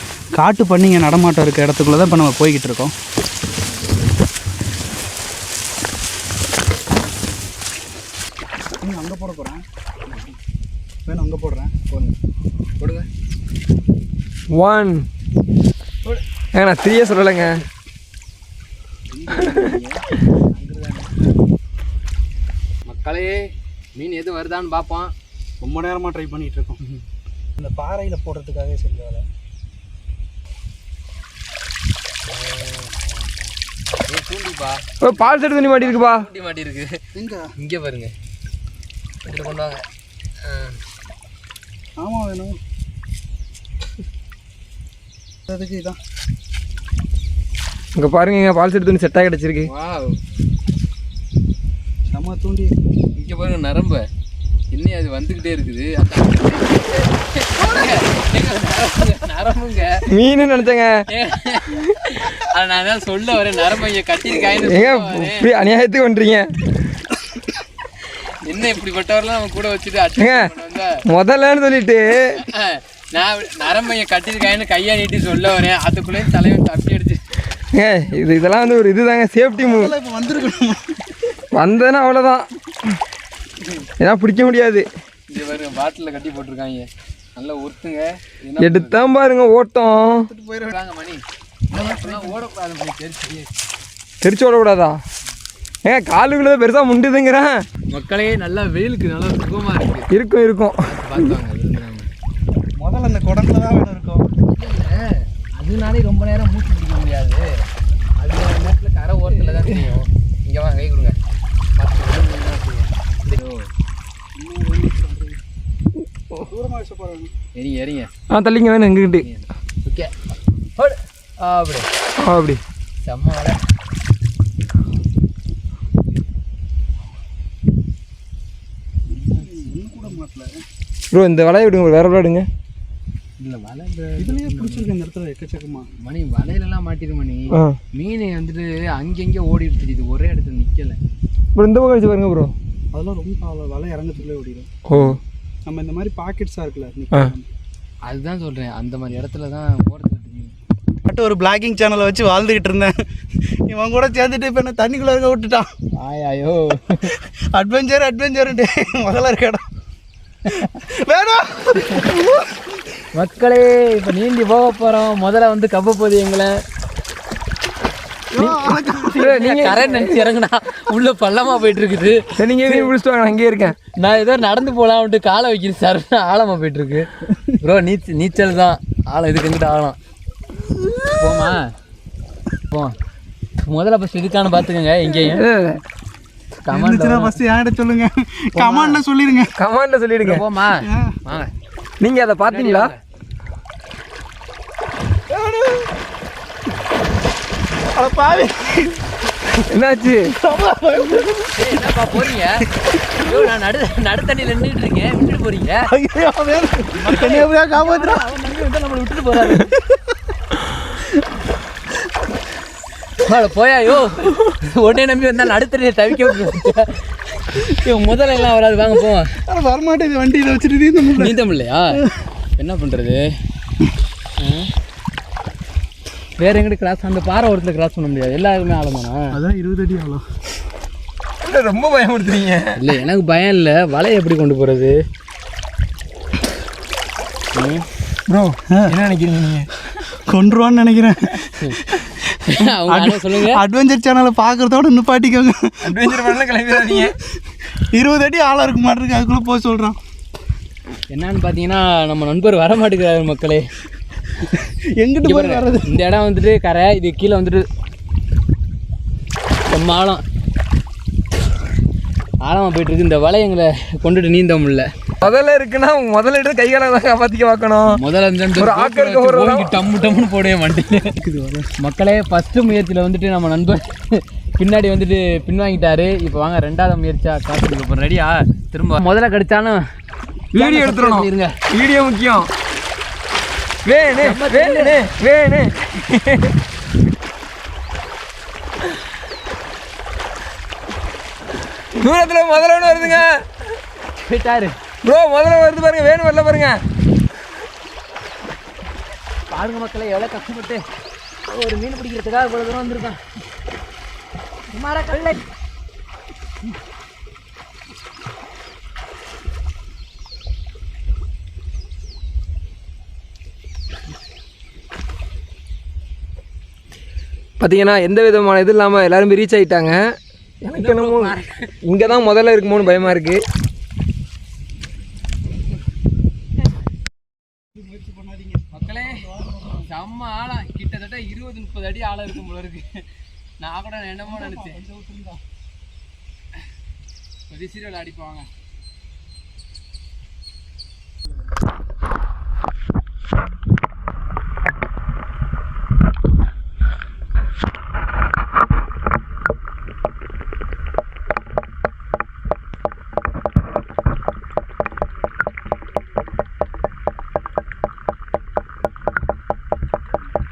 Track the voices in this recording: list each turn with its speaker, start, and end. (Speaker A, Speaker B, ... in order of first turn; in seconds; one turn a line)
Speaker A: 0.3-2.9
Speaker A: 8.8-9.6
Speaker A: 11.1-11.7
Speaker B: 11.9-12.2
Speaker B: 12.8-13.1
Speaker C: 14.5-15.1
Speaker C: 16.5-17.6
Speaker B: 19.1-21.2
Speaker B: 22.9-23.4
Speaker B: 23.9-25.1
Speaker A: 25.6-26.9
Speaker A: 27.6-29.2
Speaker B: 32.2-33.5
Speaker B: 34.1-37.0
Speaker C: 35.0-36.2
Speaker A: 37.1-37.5
Speaker B: 37.6-38.1
Speaker B: 39.2-39.8
Speaker B: 40.4-40.8
Speaker A: 42.0-42.5
Speaker A: 45.5-46.0
Speaker C: 47.9-49.7
Speaker B: 49.6-50.1
Speaker A: 52.1-52.7
Speaker B: 53.1-54.0
Speaker B: 54.7-60.0
Speaker C: 60.1-60.9
Speaker B: 61.1-65.5
Speaker C: 64.4-66.5
Speaker B: 68.4-71.0
Speaker C: 70.2-70.5
Speaker C: 71.1-72.4
Speaker B: 72.2-77.2
Speaker C: 77.7-79.9
Speaker A: 79.6-81.0
Speaker C: 81.5-83.0
Speaker C: 84.0-84.9
Speaker B: 85.3-89.0
Speaker C: 88.6-90.3
Speaker A: 90.1-90.7
Speaker B: 90.7-91.2
Speaker A: 91.7-92.3
Speaker B: 91.8-93.5
Speaker C: 94.2-95.0
Speaker C: 95.8-97.6
Speaker B: 97.9-100.1
Speaker C: 100.1-101.3
Speaker B: 100.8-102.1
Speaker A: 102.8-104.2
Speaker B: 104.5-107.6
Speaker B: 108.2-111.2
Speaker C: 109.5-109.8
Speaker B: 111.8-113.7
Speaker A: 114.3-115.4
Speaker A: 116.5-117.3
Speaker B: 117.5-118.1
Speaker C: 118.3-119.2
Speaker B: 119.2-120.1
Speaker B: 120.8-121.9
Speaker C: 122.2-122.6
Speaker B: 123.0-123.6
Speaker A: 129.1-130.6
Speaker C: 131.1-132.5
Speaker B: 133.4-134.9
Speaker A: 134.2-135.8
Speaker B: 136.0-141.0
Speaker C: 141.6-142.5
Speaker A: 142.9-144.7
Speaker C: 144.9-145.2
Speaker A: 145.7-147.4
Speaker B: 148.0-150.5
Speaker A: 151.1-152.9
Speaker A: 153.7-155.7
Speaker B: 155.9-157.1
Speaker A: 157.1-159.6
Speaker A: 160.5-162.5
Speaker B: 163.1-166.6
Speaker A: 168.3-169.3
Speaker C: 169.1-170.2
Speaker B: 169.2-172.9
Speaker C: 172.4-173.8
Speaker B: 173.9-177.1
Speaker B: 177.6-180.0
Speaker B: 181.2-181.7
Speaker B: 182.7-182.9
Speaker B: 183.6-185.4
Speaker C: 185.3-185.8
Speaker B: 186.7-187.4
Speaker A: 186.7-189.5
Speaker B: 188.6-189.0
Speaker C: 189.6-190.4
Speaker B: 190.2-191.5
Speaker A: 190.8-191.2
Speaker C: 192.0-192.9
Speaker B: 192.4-193.0
Speaker A: 195.3-195.9
Speaker A: 197.9-199.0
Speaker C: 199.7-200.3
Speaker A: 200.4-202.0
Speaker B: 201.5-205.9
Speaker A: 205.9-208.2
Speaker B: 207.0-209.7
Speaker A: 209.5-209.9
Speaker B: 213.2-219.3
Speaker A: 219.4-221.3
Speaker B: 221.2-222.0
Speaker B: 222.6-223.3
Speaker B: 224.4-224.7
Speaker B: 226.4-229.3
Speaker A: 229.3-230.2
Speaker C: 231.4-232.9
Speaker B: 232.7-235.0
Speaker B: 237.5-237.8
Speaker C: 238.3-239.7
Speaker A: 240.2-247.1
Speaker B: 242.5-243.6
Speaker C: 245.8-247.2
Speaker A: 247.9-250.0
Speaker B: 251.1-253.7
Speaker A: 254.5-255.9
Speaker B: 255.2-257.6
Speaker B: 259.7-260.2
Speaker B: 262.4-264.9
Speaker C: 265.2-268.0
Speaker B: 267.9-271.1
Speaker C: 268.6-270.0
Speaker A: 271.2-271.7
Speaker B: 271.8-279.8
Speaker C: 280.5-282.5
Speaker B: 280.5-281.5
Speaker C: 283.8-286.6
Speaker B: 284.2-285.0
Speaker C: 292.0-293.4
Speaker B: 294.2-294.7
Speaker C: 295.0-296.8
Speaker B: 299.5-300.8
Speaker B: 301.5-303.2
Speaker B: 304.7-305.4
Speaker C: 317.6-320.0
Speaker C: 320.6-323.4
Speaker B: 320.7-321.7
Speaker A: 327.8-329.8
Speaker B: 328.7-333.0
Speaker B: 333.6-334.8
Speaker A: 334.2-335.4
Speaker B: 337.5-338.5